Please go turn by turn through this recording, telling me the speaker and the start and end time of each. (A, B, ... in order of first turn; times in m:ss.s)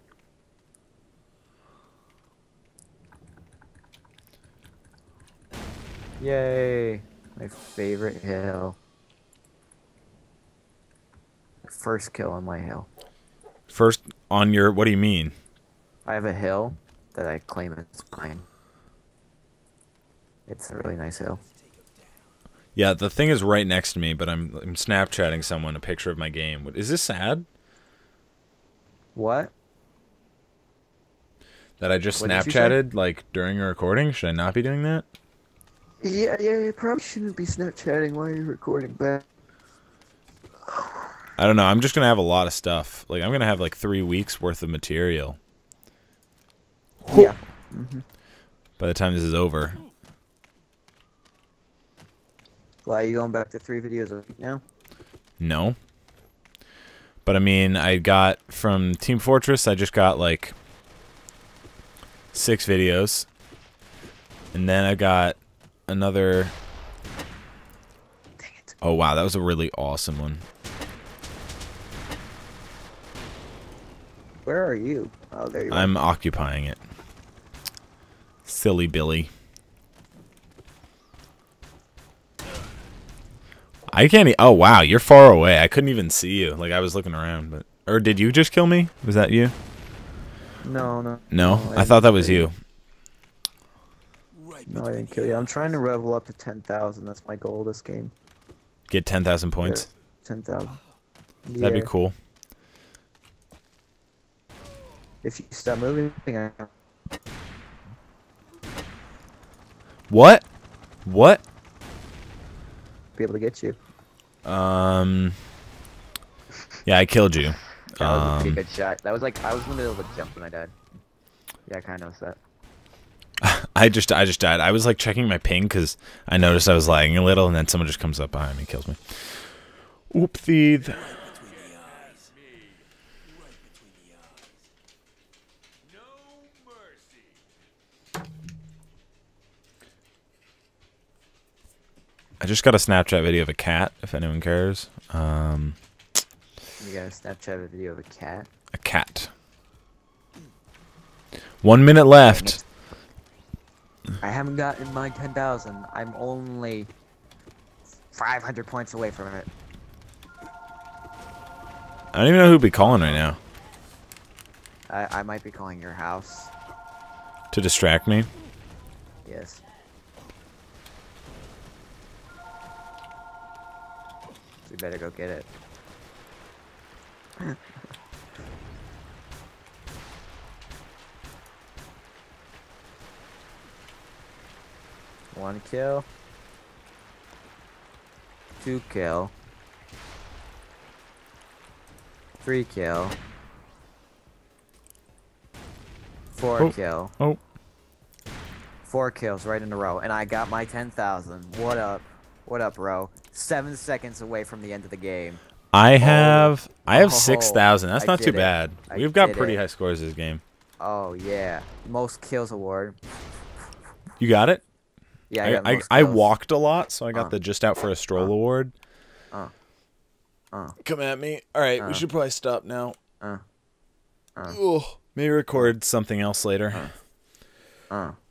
0:06.2-0:08.8 A
0:11.6-0:12.9 A
0:13.7-0:15.3 B
0:16.0-0:18.4 A
0:20.5-0:21.4 A
0:22.8-0:27.5 B
0:29.2-0:29.5 A
0:31.8-0:35.0 B
0:32.2-0:32.8 A
0:36.0-0:39.2 A
0:41.4-0:45.4 B
0:47.0-0:47.3 B
0:47.1-0:48.0 A
0:48.8-0:49.8 B
0:52.8-0:54.6 A
0:55.4-0:55.8 B
0:57.2-1:00.6 B
1:02.3-1:03.3 B
1:04.5-1:06.5 B
1:08.4-1:08.8 A
1:08.8-1:10.4 B
1:14.4-1:15.9 A
1:15.7-1:16.8 B
1:18.4-1:19.3 B
1:23.9-1:29.5 B
1:30.6-1:32.5 A
1:31.3-1:32.6 B
1:34.7-1:38.1 A
1:38.9-1:39.9 B
1:39.6-1:40.8 A
1:41.5-1:41.9 A
1:41.6-1:42.2 B
1:45.2-1:46.7 A
1:50.1-1:50.4 B
1:51.1-1:51.4 B
1:53.2-1:53.8 A
1:54.4-1:55.4 B
1:56.9-1:58.6 B
1:58.0-2:00.7 A
2:01.7-2:02.4 A
2:03.4-2:09.3 B
2:10.1-2:11.1 B
2:11.1-2:12.3 C
2:13.5-2:14.4 C
2:22.4-2:25.8 B
2:26.8-2:28.5 A
2:28.7-2:29.3 B
2:31.6-2:32.6 B
2:32.2-2:32.6 A
2:34.2-2:36.9 A
2:38.1-2:39.5 A
2:42.1-2:43.4 B
2:44.9-2:46.5 A
2:47.5-2:48.3 B
2:49.2-2:49.6 A
2:54.6-2:55.5 A
3:05.3-3:06.1 A
3:08.6-3:09.3 A
3:12.4-3:13.2 A
3:16.3-3:17.1 A
3:16.6-3:17.4 B
3:18.8-3:25.4 A
3:25.7-3:30.4 B
3:26.0-3:29.6 A
3:30.8-3:33.0 A
3:34.2-3:34.6 B
3:35.3-3:36.3 A
3:35.4-3:38.7 B
3:40.8-3:43.0 B
3:41.8-3:42.1 A
3:44.5-3:46.9 B
3:47.9-3:48.2 A